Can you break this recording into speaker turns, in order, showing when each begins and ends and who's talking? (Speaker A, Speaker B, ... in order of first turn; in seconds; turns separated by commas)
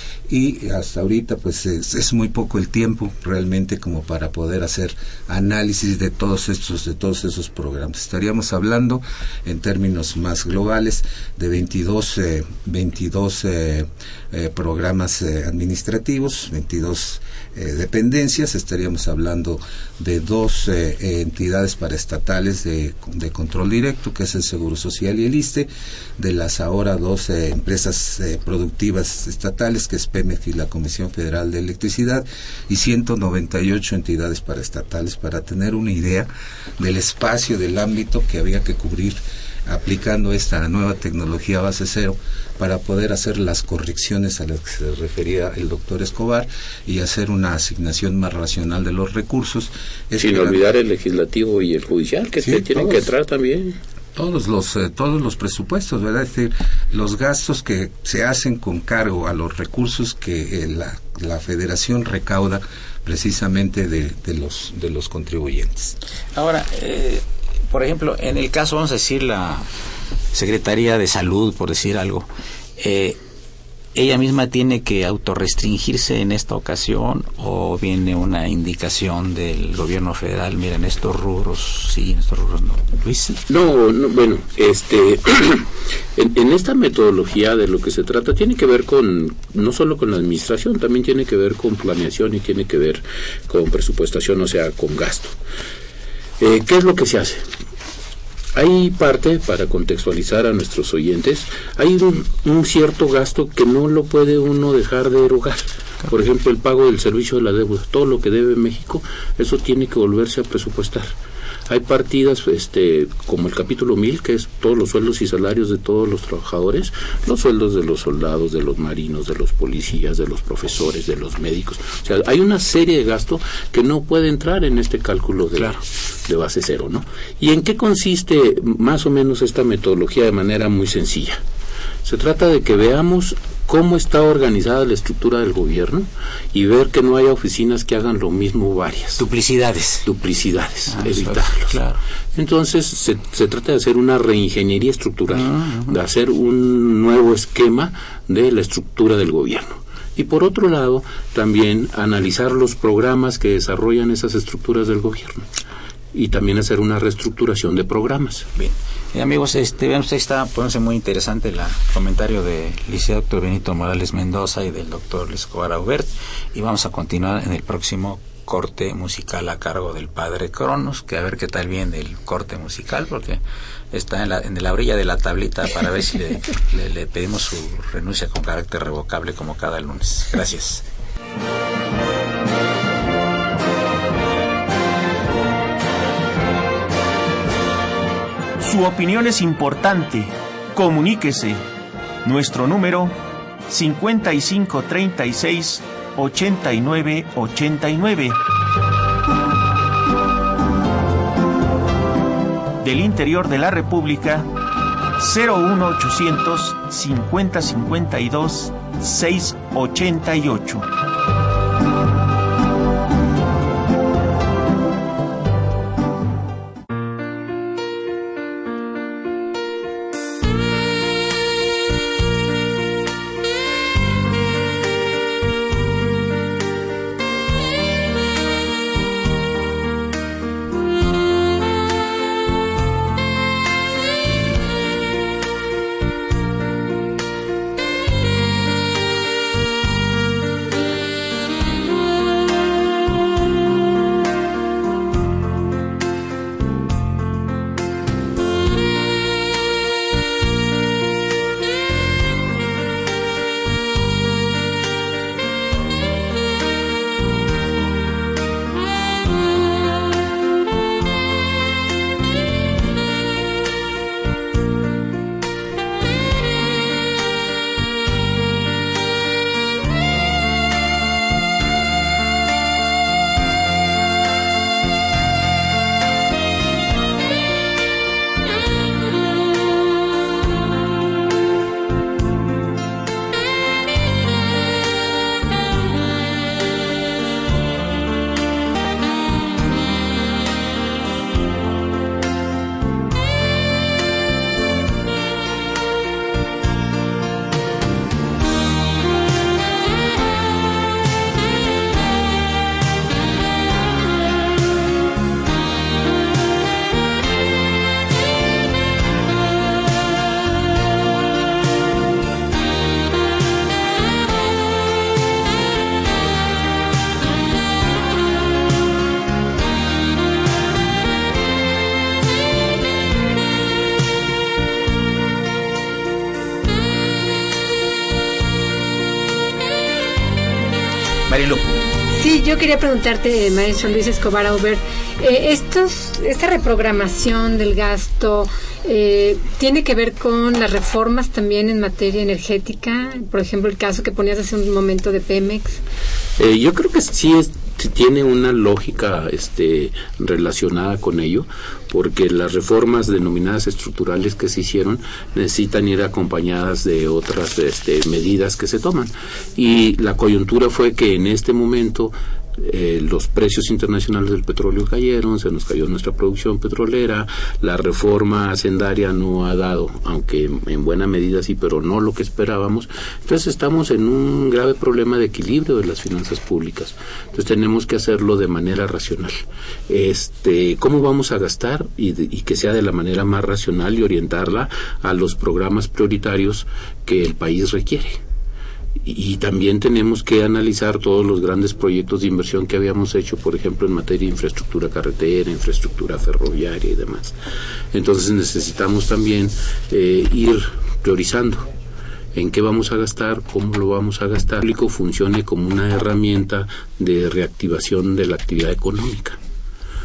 Speaker A: 0.3-50.6, Speaker B: 50.2-53.8, Speaker A: 52.4-53.1, Speaker A: 54.2-66.0, Speaker C: 66.3-69.7, Speaker C: 70.3-73.2, Speaker C: 74.0-83.4, Speaker B: 83.5-95.3, Speaker B: 96.4-97.5, Speaker B: 98.6-111.1, Speaker B: 111.7-131.4, Speaker B: 132.0-139.2, Speaker C: 139.2-140.1, Speaker B: 140.1-141.8, Speaker C: 140.9-142.0, Speaker B: 142.3-155.5, Speaker C: 145.3-146.0, Speaker B: 156.1-158.5, Speaker C: 158.6-173.4, Speaker C: 173.9-180.8, Speaker D: 188.6-191.6, Speaker D: 192.2-193.2, Speaker D: 193.7-198.4, Speaker D: 202.8-204.5, Speaker D: 205.2-210.9, Speaker C: 331.3-331.7, Speaker E: 332.2-345.8, Speaker B: 346.4-379.4, Speaker B: 379.9-388.2, Speaker B: 389.1-397.3, Speaker B: 397.9-401.7, Speaker B: 402.3-409.4